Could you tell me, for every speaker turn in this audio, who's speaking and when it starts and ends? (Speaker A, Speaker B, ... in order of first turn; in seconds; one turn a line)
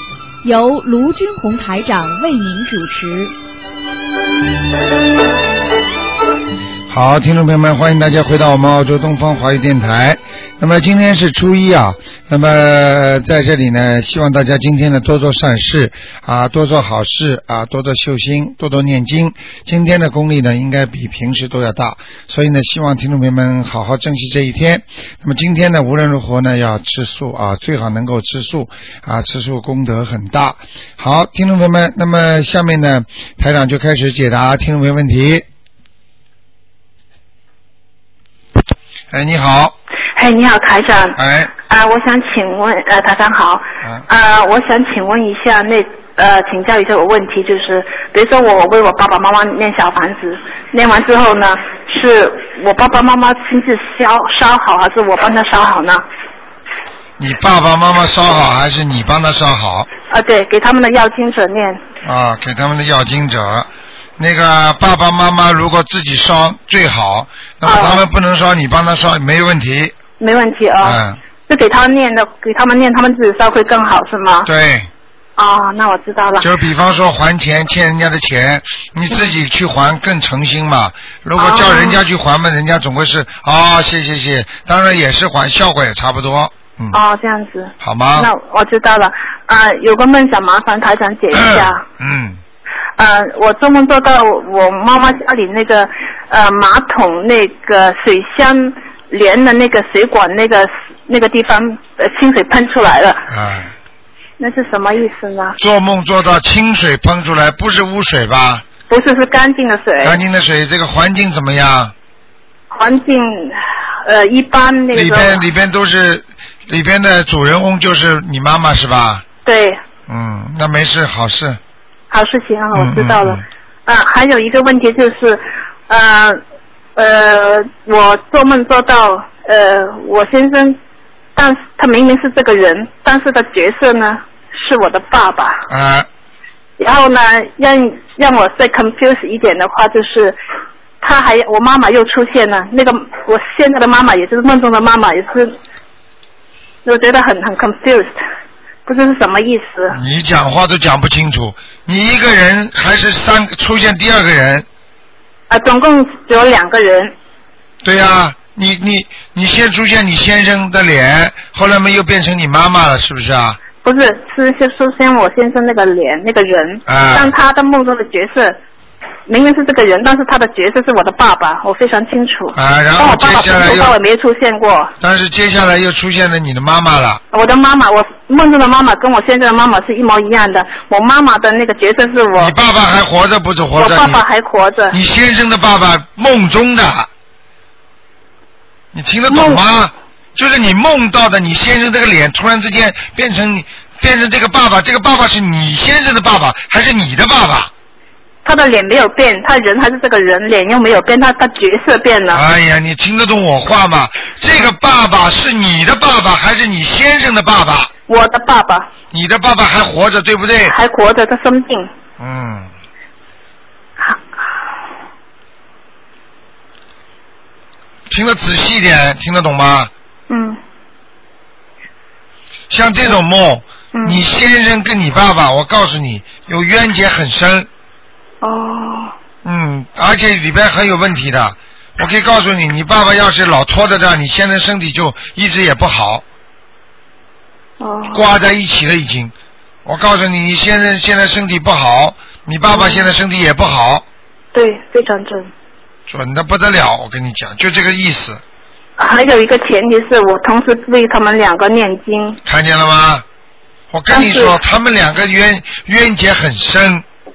Speaker A: 0.4-3.3
Speaker B: 6.9-35.5
Speaker B: 39.1-39.8
Speaker C: 40.2-56.0
Speaker B: 41.2-41.5
Speaker B: 57.2-59.9
Speaker C: 60.1-61.8
Speaker B: 62.0-70.0
Speaker C: 67.7-68.0
Speaker C: 70.2-74.5
Speaker B: 70.8-71.2
Speaker B: 74.5-74.9
Speaker C: 75.4-76.5
Speaker B: 76.4-87.0
Speaker C: 81.4-82.0
Speaker C: 86.9-91.8
Speaker B: 87.8-88.3
Speaker B: 91.3-92.4
Speaker C: 93.0-103.2
Speaker B: 103.3-103.7
Speaker C: 104.4-105.6
Speaker B: 105.6-108.6
Speaker C: 108.9-110.2
Speaker B: 110.0-111.9
Speaker C: 112.7-115.4
Speaker B: 114.9-119.2
Speaker C: 119.5-119.8
Speaker B: 120.1-121.6
Speaker C: 122.1-126.4
Speaker B: 122.7-123.4
Speaker C: 127.0-130.8
Speaker C: 131.4-135.7
Speaker B: 135.7-136.1
Speaker C: 136.8-140.4
Speaker C: 141.0-145.6
Speaker C: 146.8-148.2
Speaker C: 148.9-150.0
Speaker B: 149.9-154.7
Speaker C: 155.5-157.1
Speaker B: 157.8-163.6
Speaker C: 163.8-168.6
Speaker B: 166.9-167.3
Speaker C: 169.3-174.9
Speaker B: 172.6-174.0
Speaker B: 175.0-177.2
Speaker C: 177.3-182.5
Speaker B: 182.4-184.2
Speaker C: 183.8-185.0
Speaker B: 184.9-187.1
Speaker B: 188.9-197.7
Speaker C: 189.3-189.6
Speaker C: 198.4-202.4
Speaker B: 202.3-207.9
Speaker C: 208.1-208.9
Speaker B: 209.1-210.8
Speaker C: 210.7-211.9
Speaker B: 212.2-212.7
Speaker B: 218.1-219.9
Speaker C: 220.3-220.6
Speaker B: 222.7-227.7
Speaker C: 223.9-224.2
Speaker C: 228.4-229.1
Speaker B: 229.4-236.2
Speaker C: 237.8-238.2
Speaker B: 238.1-239.3
Speaker B: 239.8-244.1
Speaker C: 242.7-243.1
Speaker C: 244.5-245.5
Speaker B: 246.1-248.4
Speaker C: 249.0-252.4
Speaker B: 252.4-253.2
Speaker B: 253.9-257.1
Speaker C: 254.1-254.6